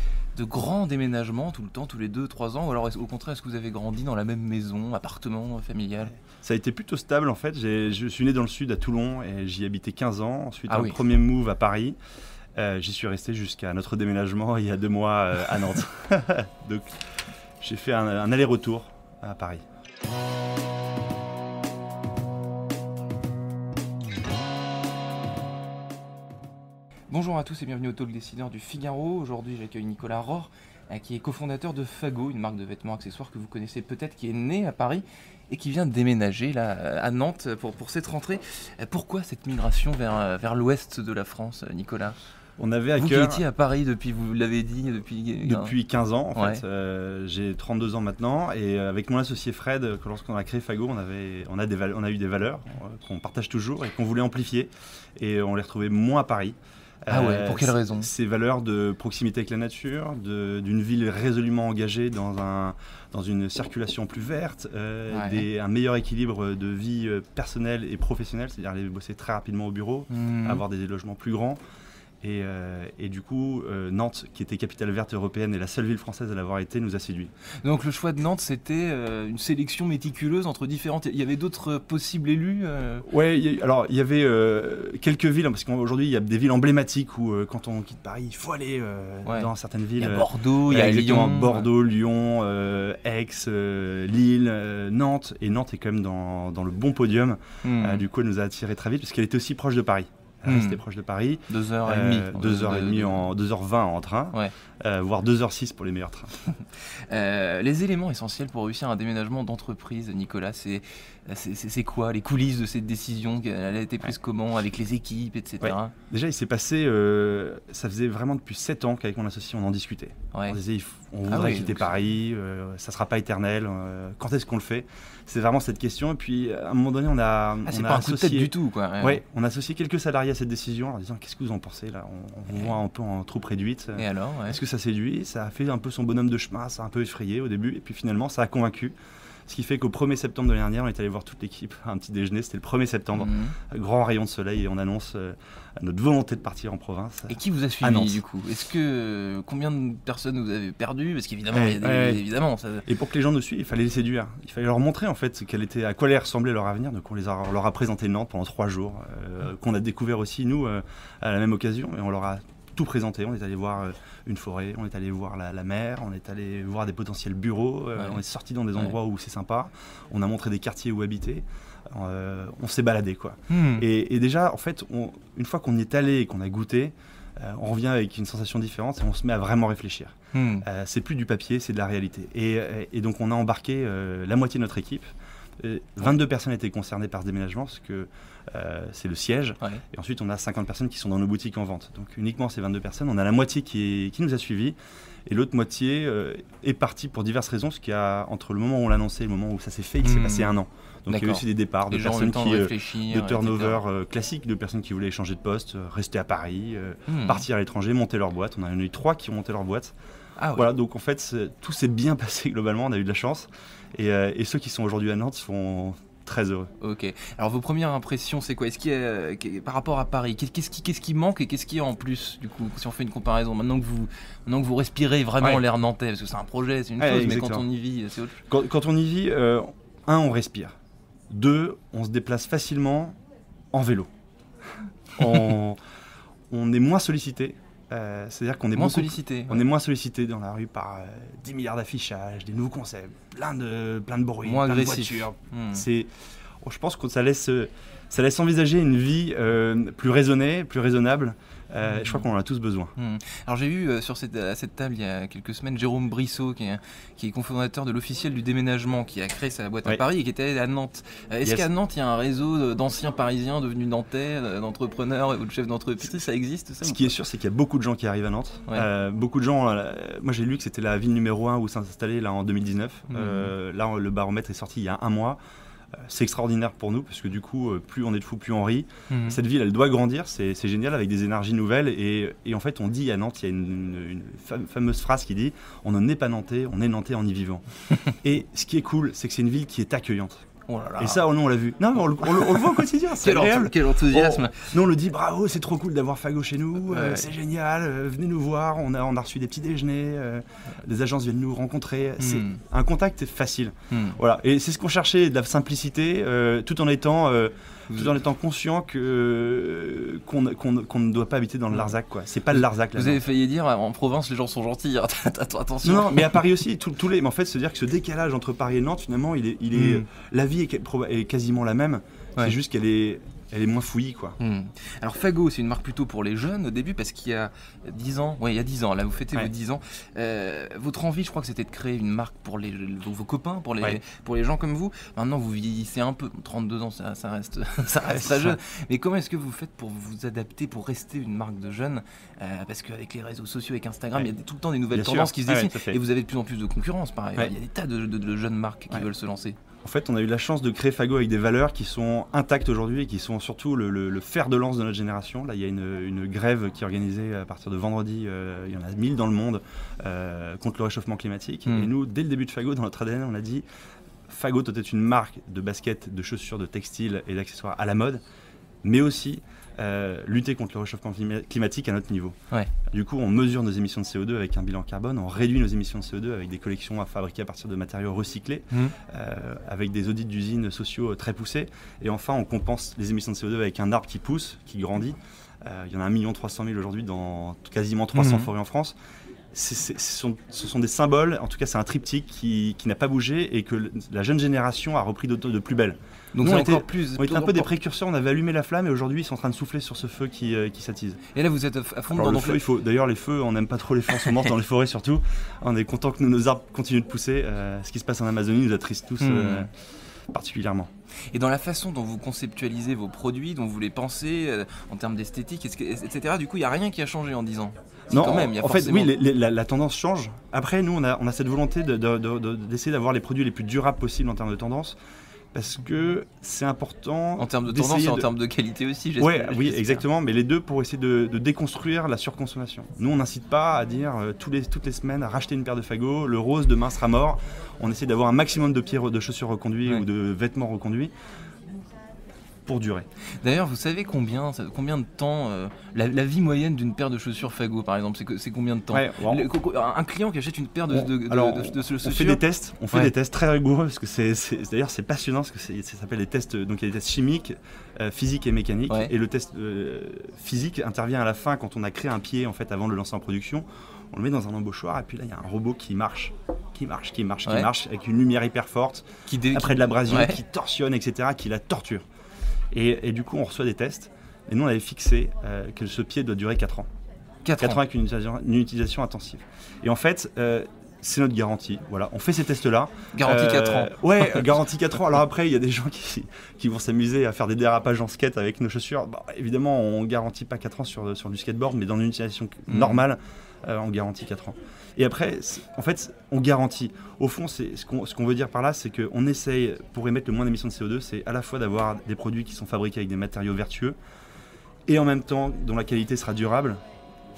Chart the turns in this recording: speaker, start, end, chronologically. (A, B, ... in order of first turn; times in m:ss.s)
0:00.3-0:06.1 A
0:06.4-0:12.0 B
0:10.7-0:11.0 A
0:12.6-0:17.0 B
0:17.6-0:19.6 B
0:27.1-0:42.1 A
0:42.6-0:43.4 B
0:43.0-0:45.7 A
0:45.4-1:11.6 B
0:46.4-0:46.6 A
0:57.1-0:58.1 A
1:05.1-1:05.4 A
1:10.1-1:10.6 A
1:12.2-1:17.3 B
1:17.6-1:23.1 A
1:23.0-1:46.4 B
1:29.2-1:31.7 A
1:37.6-1:38.0 A
1:40.4-1:40.8 A
1:41.5-1:43.3 A
1:46.7-1:55.9 A
1:55.6-2:18.9 B
2:01.3-2:01.9 A
2:07.6-2:09.2 A
2:14.0-2:14.6 A
2:19.5-2:28.2 B
2:23.1-2:23.6 A
2:27.3-2:32.9 A
2:31.5-2:32.2 B
2:32.8-3:05.1 B
2:53.5-2:53.8 A
3:00.3-3:00.6 A
3:05.6-3:14.8 B
3:15.3-3:29.9 B
3:20.0-3:20.5 A
3:21.1-3:23.8 A
3:27.1-3:27.4 A
3:30.4-3:30.7 A
3:30.5-3:36.7 B
3:36.8-3:48.4 A
3:47.0-3:47.7 B
3:48.5-3:50.7 B
3:51.3-3:53.2 B
3:53.7-3:54.1 B
3:55.2-3:55.8 B
3:56.5-4:06.1 B
3:58.8-3:59.6 A
4:04.4-4:05.8 A
4:06.6-4:12.9 B
4:13.0-4:27.0 A
4:21.4-4:21.7 B
4:26.8-4:35.4 B
4:33.1-4:33.5 A
4:36.0-4:50.4 B
4:39.1-4:39.4 A
4:50.7-4:51.2 A
4:51.0-5:13.2 B
4:52.2-4:54.8 A
4:56.8-4:57.3 A
5:02.2-5:02.6 A
5:03.9-5:04.2 A
5:12.5-5:16.4 A
5:15.8-5:24.4 B
5:19.7-5:20.0 A
5:24.4-5:49.6 A
5:38.1-5:38.6 B
5:44.9-5:46.0 B
5:49.8-6:03.6 B
6:04.3-6:08.2 B
6:08.8-6:12.3 B
6:12.9-6:28.9 B
6:28.1-6:28.5 A
6:29.5-6:41.2 B
6:36.3-6:37.7 A
6:41.3-6:42.6 A
6:42.1-6:49.7 B
6:49.2-6:49.7 A
6:50.3-6:50.9 B
6:51.3-6:59.1 A
6:58.1-7:05.0 B
7:05.5-7:08.3 B
7:07.4-7:10.0 A
7:09.2-7:21.1 B
7:22.7-7:23.0 B
7:23.4-7:32.4 A
7:28.9-7:29.5 B
7:30.9-7:52.0 B
7:47.4-7:47.7 A
7:49.3-7:50.4 A
7:52.7-7:56.9 B
7:57.4-7:57.8 A
7:57.6-8:24.0 B
8:03.1-8:04.4 A
8:12.7-8:13.0 A
8:24.9-8:26.8 B